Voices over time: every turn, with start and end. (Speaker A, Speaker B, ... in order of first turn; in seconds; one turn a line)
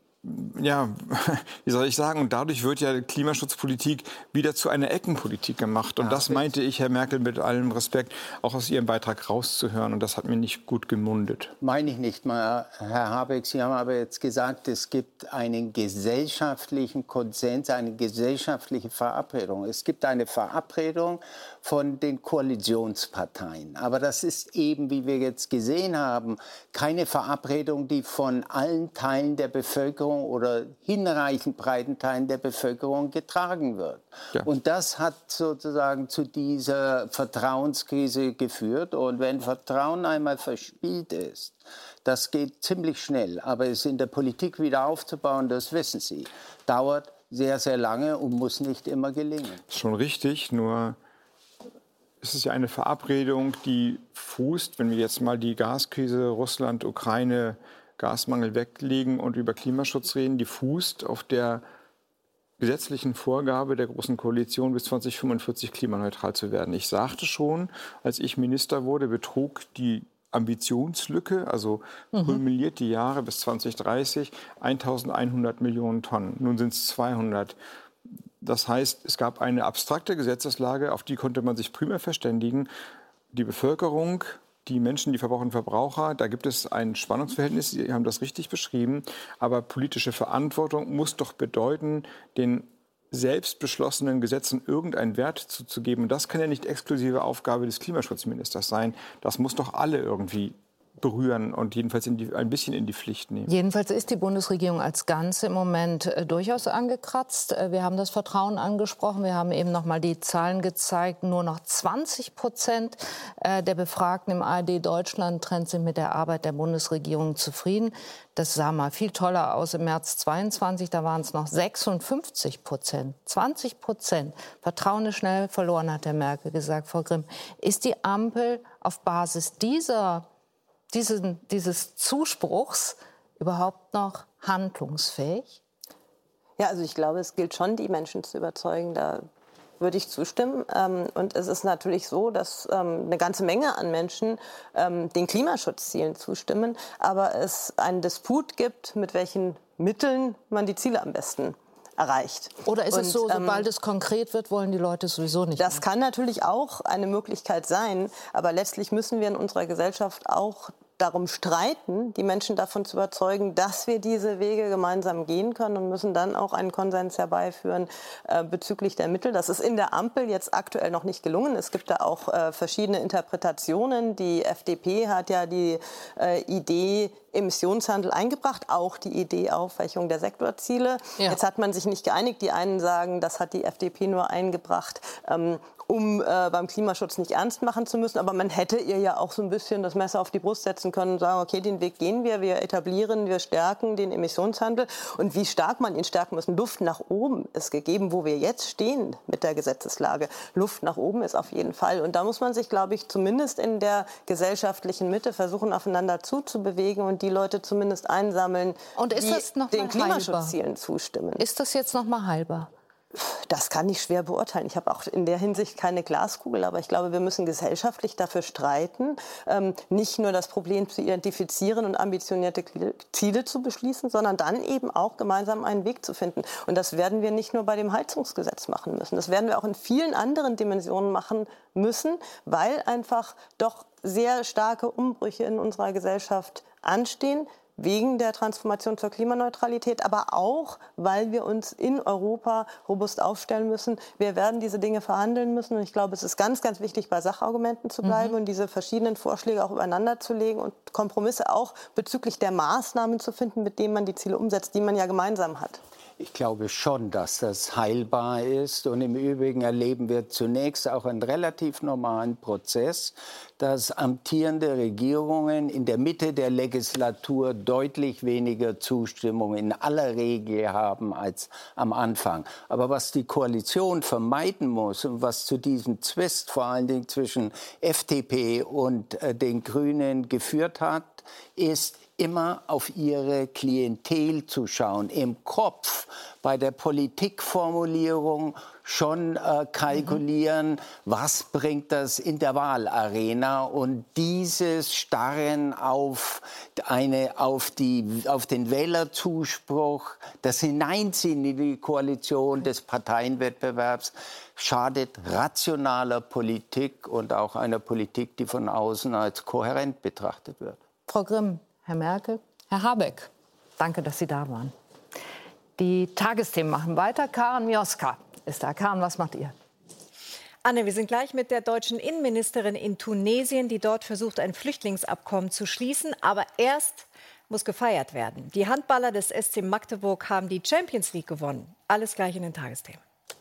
Speaker A: 0.2-11.5
Speaker B: 6.0-6.5
Speaker B: 11.6-49.6
Speaker A: 49.7-51.0
Speaker A: 52.2-61.6
Speaker A: 62.6-77.6
Speaker C: 72.1-72.4
Speaker A: 78.4-82.7
Speaker A: 83.3-103.5
Speaker C: 103.5-130.3
Speaker C: 130.9-135.6
Speaker D: 136.6-139.2
Speaker D: 139.8-153.7
Speaker C: 152.7-155.8
Speaker D: 155.6-211.4
Speaker C: 209.0-210.6
Speaker C: 211.4-212.7
Speaker D: 213.1-255.8
Speaker C: 248.0-248.4
Speaker B: 256.2-310.8
Speaker C: 311.1-314.7
Speaker C: 315.8-319.5
Speaker E: 320.6-333.0